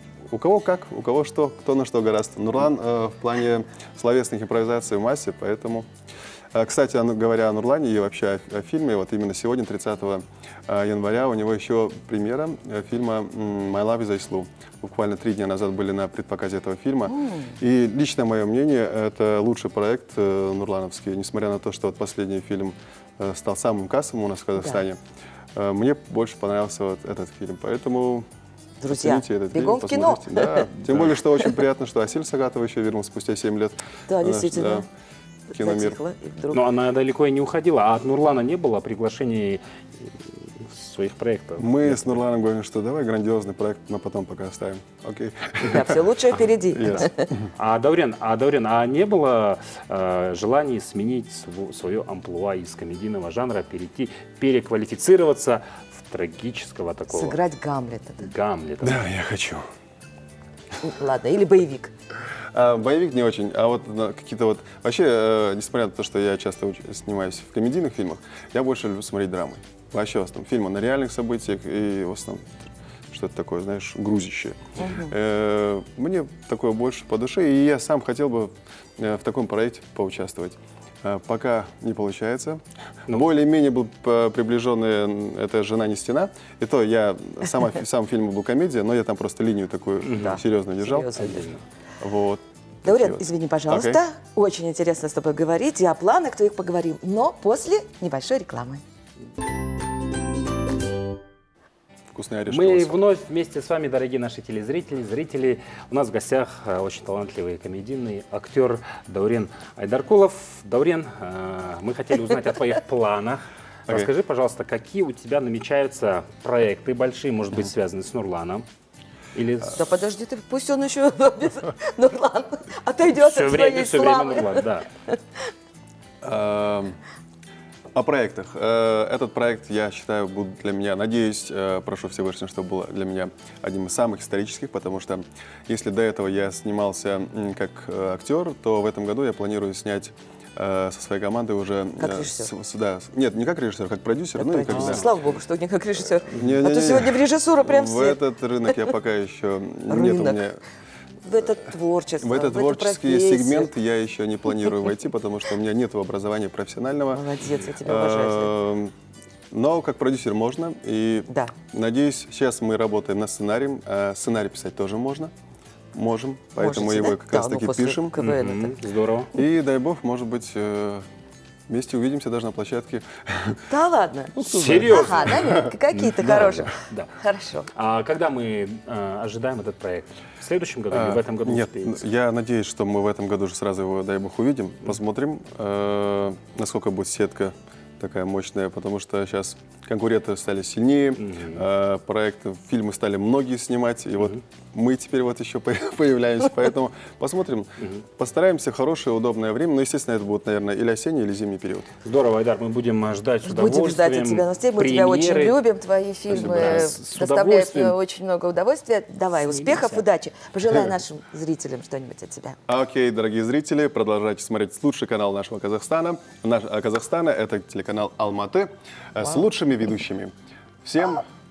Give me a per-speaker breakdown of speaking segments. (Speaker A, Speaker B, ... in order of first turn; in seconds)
Speaker A: 0.3-5.9, 6.5-25.0, 25.5-28.3, 28.9-34.9, 35.6-36.0, 41.6-46.0, 46.8-47.1, 58.8-59.7, 62.5-72.5, 73.1-91.0, 92.0-94.0, 102.1-103.0, 126.2-127.0, 128.0-145.1, 146.4-150.6, 152.2-157.2, 157.8-158.9, 159.5-165.3, 165.9-168.2, 169.4-171.1, 171.7-173.6, 174.4-175.7, 180.9-201.9, 212.7-221.2
Speaker B: 17.1-17.6, 24.6-24.8, 28.8-30.7, 34.1-34.9, 35.5-36.6, 45.6-47.3, 57.1-58.3, 60.8-61.9, 74.8-75.1, 90.2-91.5, 92.8-98.8, 119.8-125.2, 142.0-142.5, 144.3-148.8, 149.9-150.4, 151.2-153.7, 157.1-158.6, 161.3-161.5, 166.6-168.8, 173.7-177.7, 203.4-212.6
Speaker C: 36.5-42.2, 47.6-57.4, 58.2-59.1, 90.0-90.4, 91.0-91.6, 102.5-118.7, 119.3-119.8, 123.2-124.9, 144.7-145.1, 168.2-169.3, 174.4-175.5, 176.2-177.1, 177.8-182.1, 191.2-191.7, 197.8-198.0, 202.0-205.6, 206.3-208.0, 209.4-210.1